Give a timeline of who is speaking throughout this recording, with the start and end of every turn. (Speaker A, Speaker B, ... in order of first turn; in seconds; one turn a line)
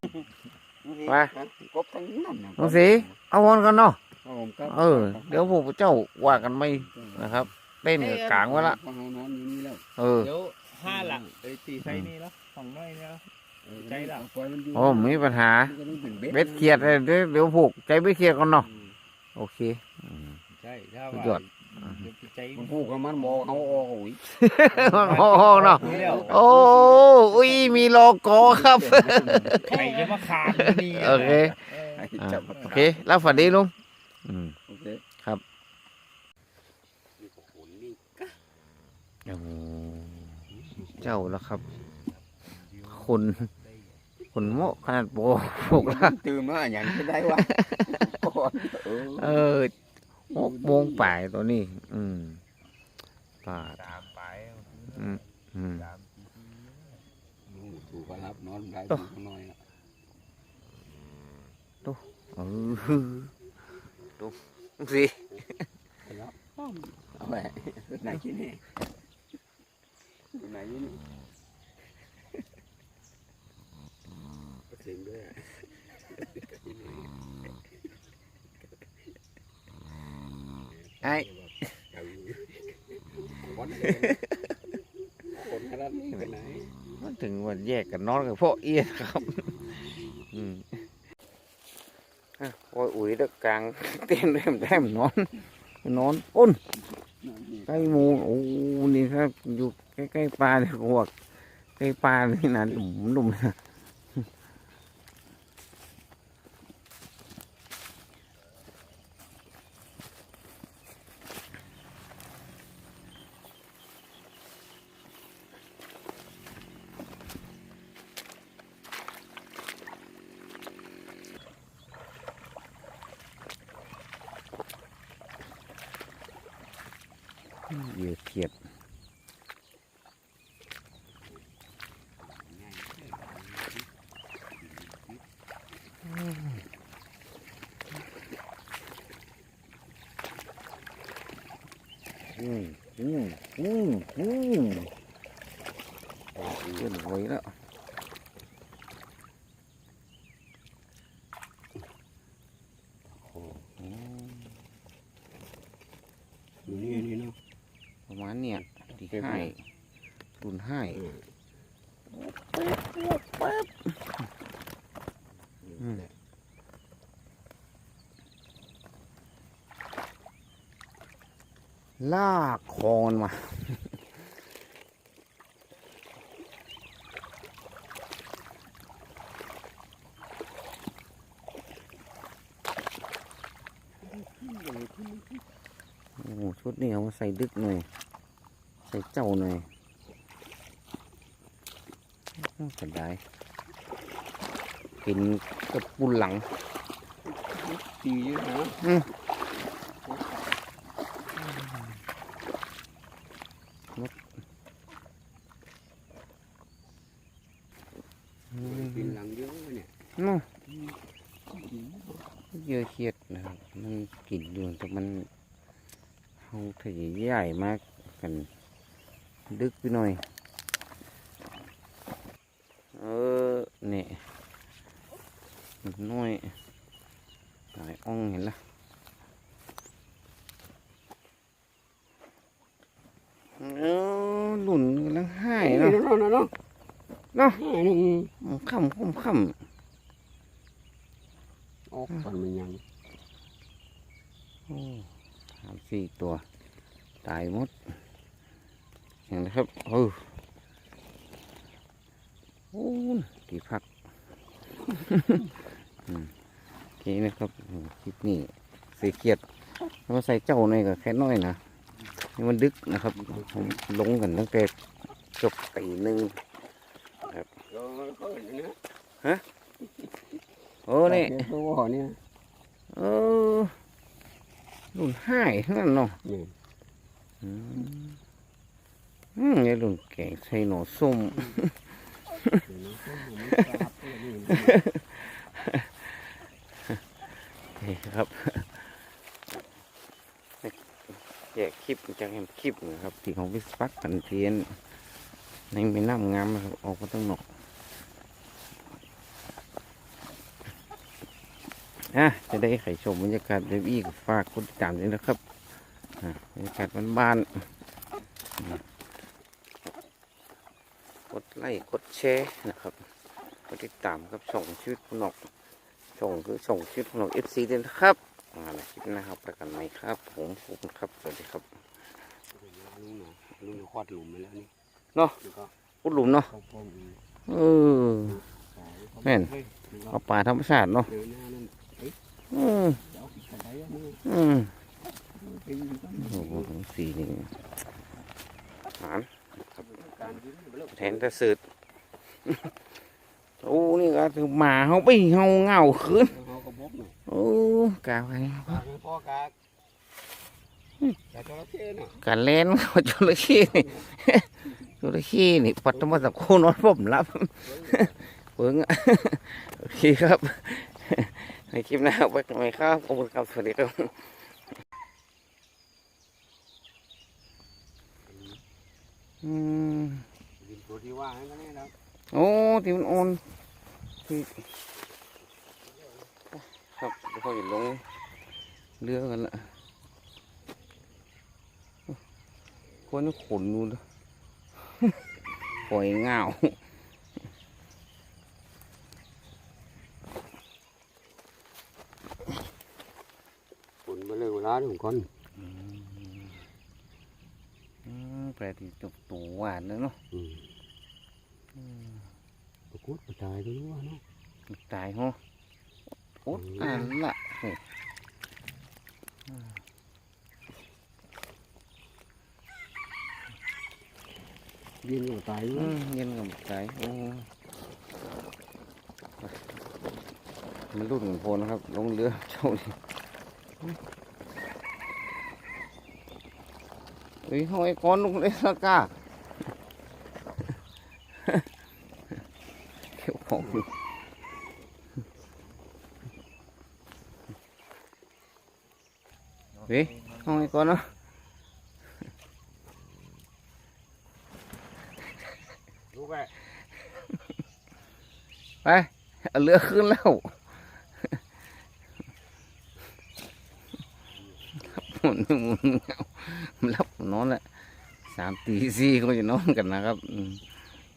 Speaker A: 0.8-3.1
Speaker B: 1.0-1.3
Speaker B: 2.6-4.0
Speaker A: 4.2-5.6
Speaker B: 4.7-8.8
Speaker A: 8.1-9.8
Speaker B: 10.0-10.3
Speaker C: 10.3-13.2
Speaker A: 10.9-11.2
Speaker B: 11.8-12.1
Speaker A: 13.6-17.0
Speaker C: 13.8-14.2
Speaker B: 14.7-15.8
Speaker B: 16.3-18.7
Speaker A: 18.6-18.9
Speaker B: 19.4-20.4
Speaker A: 20.5-21.5
Speaker B: 21.1-22.1
Speaker C: 21.8-22.7
Speaker A: 22.5-27.9
Speaker B: 24.2-33.7
Speaker C: 25.0-26.3
Speaker A: 28.4-33.6
Speaker C: 29.7-32.1
Speaker B: 34.2-34.6
Speaker A: 34.7-35.0
Speaker A: 37.2-38.3
Speaker B: 39.2-41.7
Speaker A: 40.5-41.1
Speaker B: 42.8-43.5
Speaker B: 44.3-46.1
Speaker A: 44.4-44.7
Speaker A: 45.6-49.5
Speaker B: 47.5-48.0
Speaker B: 48.7-49.7
Speaker B: 50.3-52.4
Speaker A: 50.3-51.1
Speaker B: 53.4-54.0
Speaker C: 54.3-54.9
Speaker B: 54.8-56.0
Speaker A: 57.5-59.6
Speaker B: 61.8-63.3
Speaker B: 64.2-65.3
Speaker A: 66.0-66.4
Speaker A: 67.1-68.6
Speaker A: 70.3-71.0
Speaker A: 74.7-77.1
Speaker A: 80.7-84.2
Speaker B: 81.0-81.3
Speaker A: 85.2-86.7
Speaker B: 87.0-89.6
Speaker B: 90.3-90.8
Speaker B: 92.4-96.6
Speaker A: 97.2-98.2
Speaker B: 97.7-101.1
Speaker B: 101.8-103.6
Speaker B: 127.7-128.5
Speaker A: 132.2-133.9
Speaker A: 134.6-135.2
Speaker B: 136.1-136.6
Speaker B: 142.3-144.9
Speaker A: 146.3-146.9
Speaker B: 146.7-147.5
Speaker A: 153.2-153.6
Speaker B: 153.8-154.6
Speaker A: 156.7-157.4
Speaker B: 158.1-159.6
Speaker A: 158.8-159.5
Speaker B: 160.4-161.0
Speaker A: 160.9-161.2
Speaker B: 162.1-164.0
Speaker A: 165.6-166.1
Speaker B: 172.0-174.0
Speaker A: 184.0-185.4
Speaker B: 186.2-187.9
Speaker B: 188.9-189.7
Speaker B: 192.4-193.2
Speaker B: 195.0-196.5
Speaker A: 197.2-198.9
Speaker B: 198.8-199.1
Speaker B: 201.4-201.9
Speaker B: 208.5-209.1
Speaker A: 208.6-209.9
Speaker B: 210.2-210.5
Speaker A: 210.7-210.9
Speaker A: 211.5-212.3
Speaker B: 212.5-215.3
Speaker B: 216.4-218.5
Speaker B: 219.5-220.2
Speaker B: 222.9-224.2
Speaker B: 225.8-226.6
Speaker B: 227.7-228.6
Speaker B: 233.6-236.0
Speaker A: 235.6-236.5
Speaker B: 237.3-237.6
Speaker A: 237.5-238.3
Speaker B: 238.4-239.6
Speaker A: 241.9-242.8
Speaker B: 244.7-245.1
Speaker B: 245.6-246.4
Speaker B: 247.2-248.0
Speaker B: 249.3-250.3
Speaker B: 252.7-253.8
Speaker B: 254.9-255.5
Speaker B: 256.1-256.3
Speaker B: 257.0-259.4
Speaker B: 260.1-261.6
Speaker B: 262.4-264.7
Speaker A: 263.3-263.8
Speaker B: 265.4-266.4
Speaker B: 267.2-267.5
Speaker A: 267.7-268.8
Speaker B: 270.9-271.5
Speaker A: 271.1-272.2
Speaker B: 272.9-273.8
Speaker B: 274.9-276.2
Speaker A: 276.2-276.5
Speaker B: 277.4-278.2
Speaker B: 279.4-281.8
Speaker A: 282.7-284.8
Speaker B: 284.5-286.3
Speaker B: 287.7-289.0
Speaker B: 291.5-294.8
Speaker B: 295.7-297.4
Speaker B: 302.1-305.4
Speaker B: 306.2-307.7
Speaker B: 311.3-313.0
Speaker B: 313.7-315.4
Speaker B: 316.1-321.8
Speaker A: 322.5-324.7
Speaker A: 325.4-325.7
Speaker B: 326.0-326.5
Speaker A: 326.5-327.2
Speaker B: 327.5-328.4
Speaker A: 328.5-330.2
Speaker B: 329.2-329.6
Speaker B: 330.1-331.1
Speaker A: 331.1-332.1
Speaker B: 332.5-333.0
Speaker A: 333.0-334.2
Speaker B: 334.2-334.8
Speaker A: 335.3-336.7
Speaker B: 336.2-337.7
Speaker B: 338.9-339.3
Speaker A: 339.8-341.3
Speaker B: 340.9-341.6
Speaker B: 342.5-342.7
Speaker B: 343.6-346.4
Speaker A: 346.3-347.1
Speaker B: 347.3-348.9
Speaker A: 348.7-349.5
Speaker A: 351.3-352.2
Speaker B: 352.2-364.6
Speaker A: 357.7-358.1
Speaker A: 368.3-368.6
Speaker B: 369.4-370.3
Speaker A: 370.6-371.9
Speaker B: 372.3-373.4
Speaker B: 374.2-374.7
Speaker B: 376.5-378.0
Speaker B: 379.0-379.7
Speaker B: 383.1-384.0
Speaker B: 384.8-385.2
Speaker B: 385.8-386.8
Speaker A: 394.1-395.3
Speaker B: 395.6-396.6
Speaker B: 398.0-400.2
Speaker A: 400.3-400.7
Speaker B: 401.8-402.1
Speaker A: 402.9-404.2
Speaker B: 404.7-405.4
Speaker B: 406.4-407.8
Speaker A: 406.5-407.1
Speaker A: 415.0-415.9
Speaker B: 415.7-417.5
Speaker B: 420.9-423.0
Speaker B: 427.4-429.1
Speaker B: 433.1-433.9
Speaker B: 439.9-441.1
Speaker A: 446.2-446.5
Speaker B: 448.8-450.6
Speaker A: 454.7-454.9
Speaker B: 454.8-457.6
Speaker B: 458.2-460.6